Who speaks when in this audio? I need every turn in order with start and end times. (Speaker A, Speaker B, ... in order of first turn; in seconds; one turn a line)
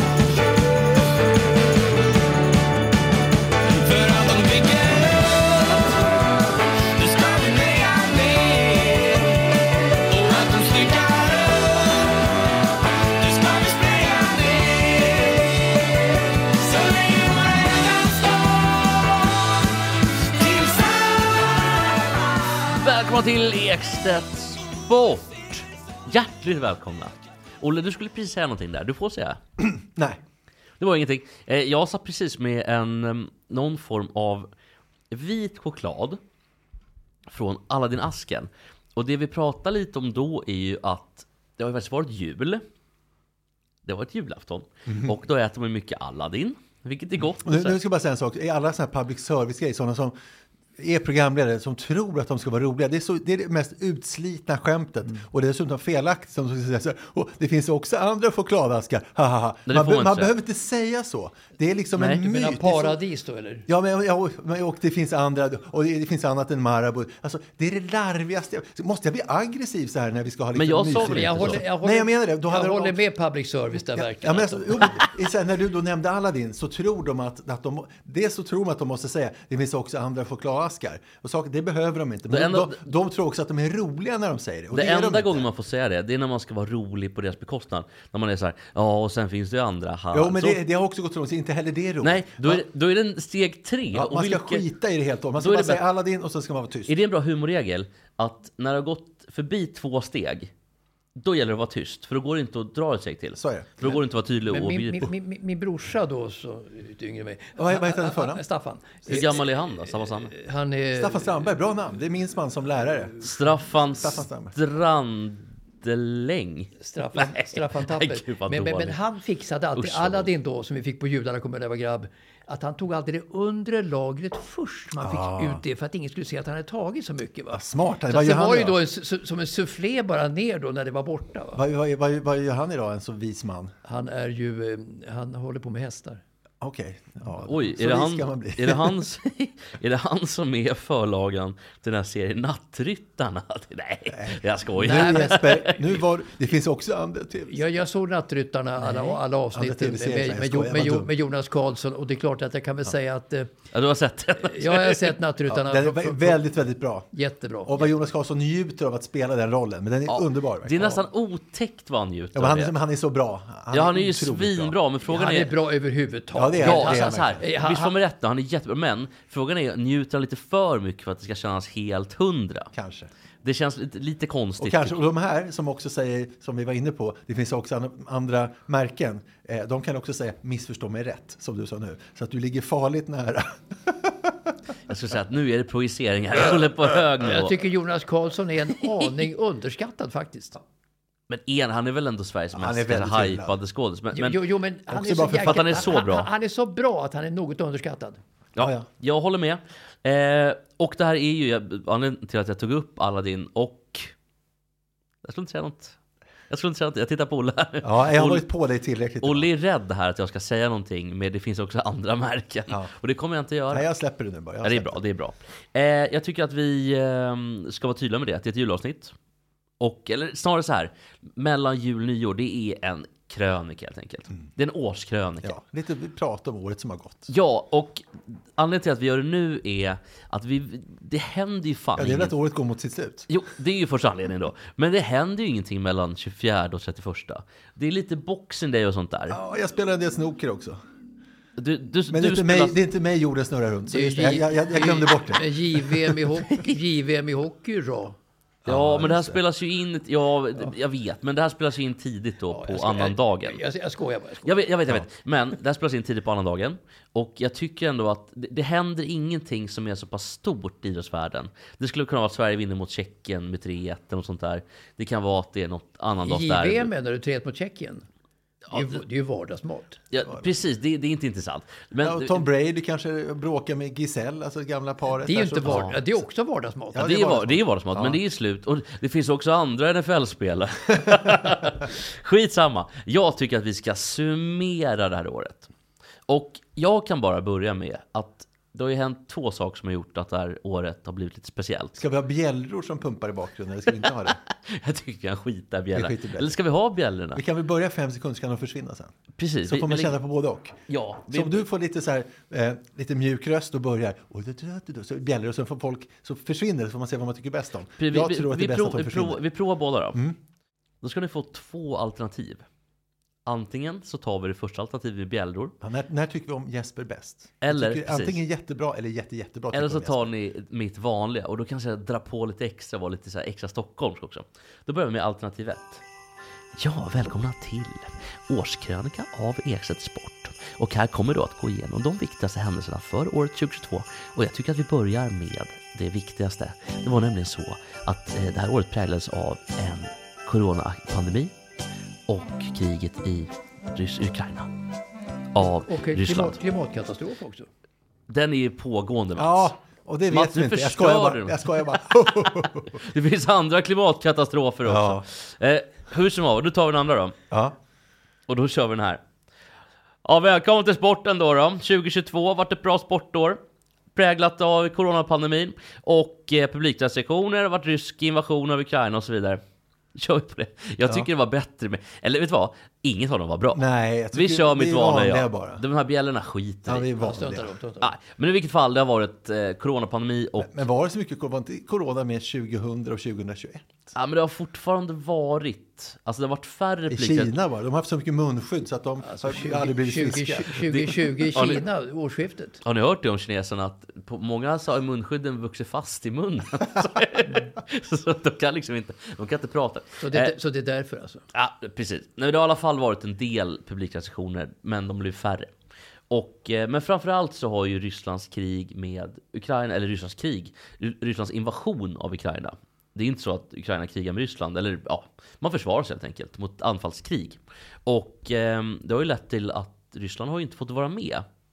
Speaker A: 3.7-5.8
Speaker A: 7.0-9.3
Speaker A: 10.1-12.2
Speaker A: 13.2-15.6
Speaker A: 16.6-18.5
Speaker A: 20.4-21.5
Speaker B: 22.7-29.4
Speaker C: 29.6-30.2
Speaker B: 30.8-34.5
Speaker B: 35.1-36.2
Speaker B: 37.3-42.6
Speaker B: 43.9-47.8
Speaker C: 44.9-45.1
Speaker C: 47.4-50.2
Speaker C: 50.8-63.0
Speaker B: 59.7-60.3
Speaker B: 62.0-62.2
Speaker D: 62.1-63.7
Speaker C: 63.7-73.0
Speaker B: 70.5-71.6
Speaker D: 71.0-75.0
Speaker C: 73.9-85.5
Speaker B: 82.3-82.8
Speaker B: 84.7-90.6
Speaker C: 90.1-92.7
Speaker B: 92.0-94.7
Speaker C: 93.9-97.0
Speaker B: 95.4-95.8
Speaker B: 96.9-100.5
Speaker B: 101.2-105.1
Speaker C: 103.4-104.0
Speaker D: 104.5-111.4
Speaker C: 107.6-108.4
Speaker B: 109.1-110.3
Speaker C: 111.0-113.2
Speaker B: 113.2-119.0
Speaker C: 113.9-114.5
Speaker D: 116.8-131.6
Speaker B: 119.8-120.3
Speaker C: 125.0-125.6
Speaker C: 127.5-128.8
Speaker C: 131.6-133.7
Speaker D: 133.8-136.2
Speaker C: 136.6-139.0
Speaker B: 137.4-145.9
Speaker C: 144.1-147.6
Speaker D: 144.8-145.4
Speaker D: 147.5-153.5
Speaker C: 148.9-151.1
Speaker B: 153.7-155.2
Speaker D: 154.4-156.4
Speaker C: 155.5-157.1
Speaker D: 157.1-157.8
Speaker C: 157.7-161.1
Speaker B: 160.1-162.8
Speaker C: 162.3-164.8
Speaker B: 163.7-165.5
Speaker D: 165.1-167.9
Speaker C: 166.3-167.4
Speaker B: 166.6-172.7
Speaker C: 172.7-173.1
Speaker B: 173.4-175.0
Speaker C: 174.6-184.4
Speaker B: 184.9-187.6
Speaker D: 187.2-190.6
Speaker B: 191.3-194.4
Speaker C: 192.6-193.6
Speaker D: 194.1-198.2
Speaker C: 194.9-195.8
Speaker B: 195.4-196.3
Speaker B: 198.6-204.1
Speaker C: 198.6-198.9
Speaker B: 205.2-206.0
Speaker B: 206.5-208.4
Speaker C: 207.8-209.5
Speaker B: 209.2-213.9
Speaker C: 213.7-215.0
Speaker B: 214.6-219.1
Speaker B: 219.8-225.6
Speaker C: 225.4-227.3
Speaker B: 227.3-232.3
Speaker C: 232.0-233.3
Speaker B: 233.3-239.4
Speaker C: 239.3-240.8
Speaker B: 241.6-242.8
Speaker C: 242.1-246.1
Speaker D: 243.9-248.2
Speaker C: 248.7-249.4
Speaker B: 248.7-253.6
Speaker D: 252.5-254.6
Speaker B: 254.4-266.9
Speaker D: 266.2-268.1
Speaker D: 268.7-270.0
Speaker B: 270.1-272.4
Speaker C: 270.2-270.5
Speaker C: 272.0-275.9
Speaker D: 275.2-277.0
Speaker B: 275.6-276.0
Speaker C: 276.9-278.2
Speaker B: 277.0-285.7
Speaker B: 286.3-292.0
Speaker C: 292.0-294.4
Speaker B: 294.7-297.4
Speaker C: 295.9-296.6
Speaker C: 297.4-299.1
Speaker B: 299.4-300.2
Speaker C: 299.6-309.4
Speaker B: 300.9-301.7
Speaker B: 308.0-310.2
Speaker C: 310.1-310.4
Speaker B: 311.0-312.6
Speaker B: 313.5-315.7
Speaker C: 315.8-320.3
Speaker B: 317.6-318.4
Speaker B: 319.7-326.0
Speaker B: 326.8-341.5
Speaker B: 342.3-344.7
Speaker B: 345.5-346.6
Speaker D: 345.9-347.7
Speaker B: 348.3-349.7
Speaker C: 349.4-353.0
Speaker B: 350.3-357.4
Speaker C: 354.9-355.2
Speaker B: 358.5-359.2
Speaker B: 360.2-363.6
Speaker B: 364.1-369.6
Speaker B: 370.1-377.1
Speaker C: 373.7-375.8
Speaker C: 376.9-377.7
Speaker D: 377.2-378.1
Speaker B: 378.0-380.8
Speaker C: 380.6-383.9
Speaker B: 384.1-387.6
Speaker C: 387.1-390.9
Speaker D: 389.2-392.8
Speaker B: 390.9-391.9
Speaker B: 392.8-400.5
Speaker D: 400.2-401.4
Speaker B: 401.5-405.7
Speaker B: 406.3-421.4